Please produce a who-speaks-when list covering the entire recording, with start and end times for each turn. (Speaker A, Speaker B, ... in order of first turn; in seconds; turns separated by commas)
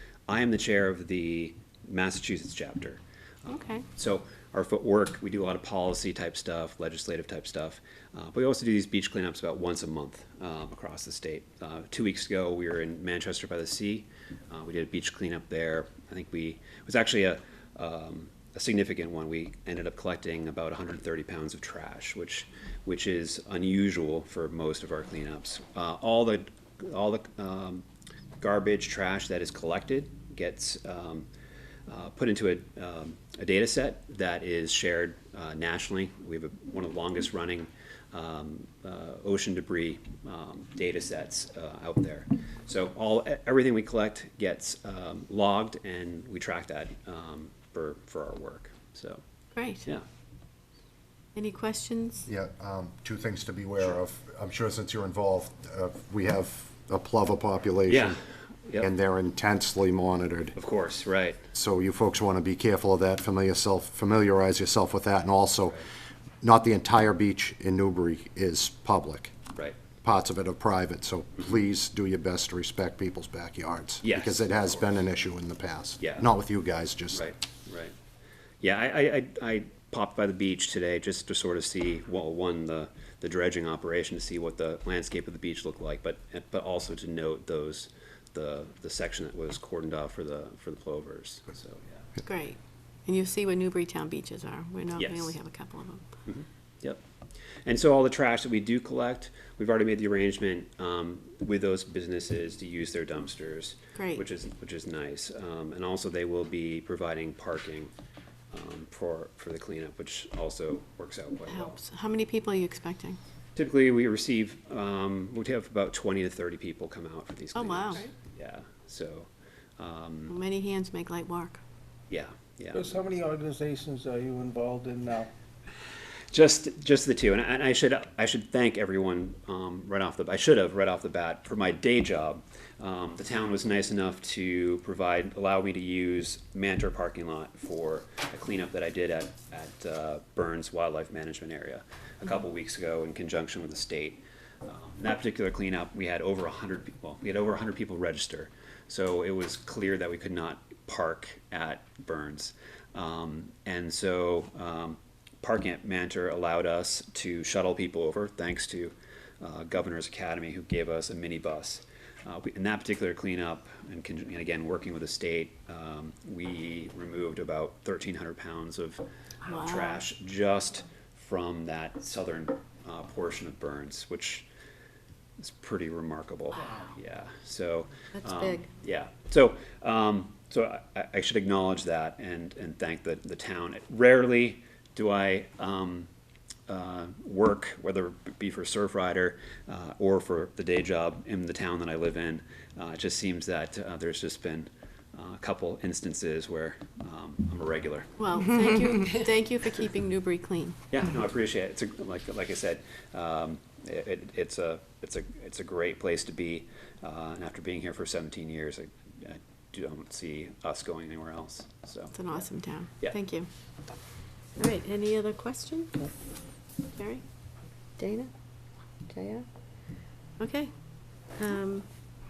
Speaker A: 0.3-27.8, Speaker B: 3.5-3.8, Speaker A: 28.4-31.3, Speaker A: 31.9-49.2, Speaker B: 49.5-49.9, Speaker B: 51.3-52.2, Speaker C: 52.2-58.1, Speaker A: 57.9-58.9, Speaker C: 58.8-60.5, Speaker A: 60.5-61.4, Speaker C: 61.5-65.8, Speaker C: 66.4-69.3, Speaker C: 70.0-77.3, Speaker A: 74.0-74.9, Speaker A: 76.0-76.2, Speaker A: 77.1-77.9, Speaker A: 78.6-92.0, Speaker B: 92.2-96.0, Speaker A: 95.0-95.3, Speaker A: 96.2-97.0, Speaker A: 97.6-107.9, Speaker B: 104.0-104.2, Speaker A: 108.5-111.8, Speaker B: 111.5-113.2, Speaker A: 113.5-120.3, Speaker B: 117.5-118.1, Speaker B: 120.3-121.6, Speaker A: 122.1-123.0, Speaker D: 122.7-125.3, Speaker A: 126.3-174.4, Speaker B: 169.5-169.9, Speaker A: 175.4-186.1, Speaker B: 178.2-178.6, Speaker A: 186.7-198.2, Speaker B: 198.2-200.8, Speaker A: 200.9-212.4, Speaker B: 212.1-213.5, Speaker B: 214.6-216.1, Speaker B: 216.9-217.2, Speaker B: 218.0-218.3, Speaker B: 219.1-219.4, Speaker B: 220.4-220.7, Speaker B: 221.4-221.8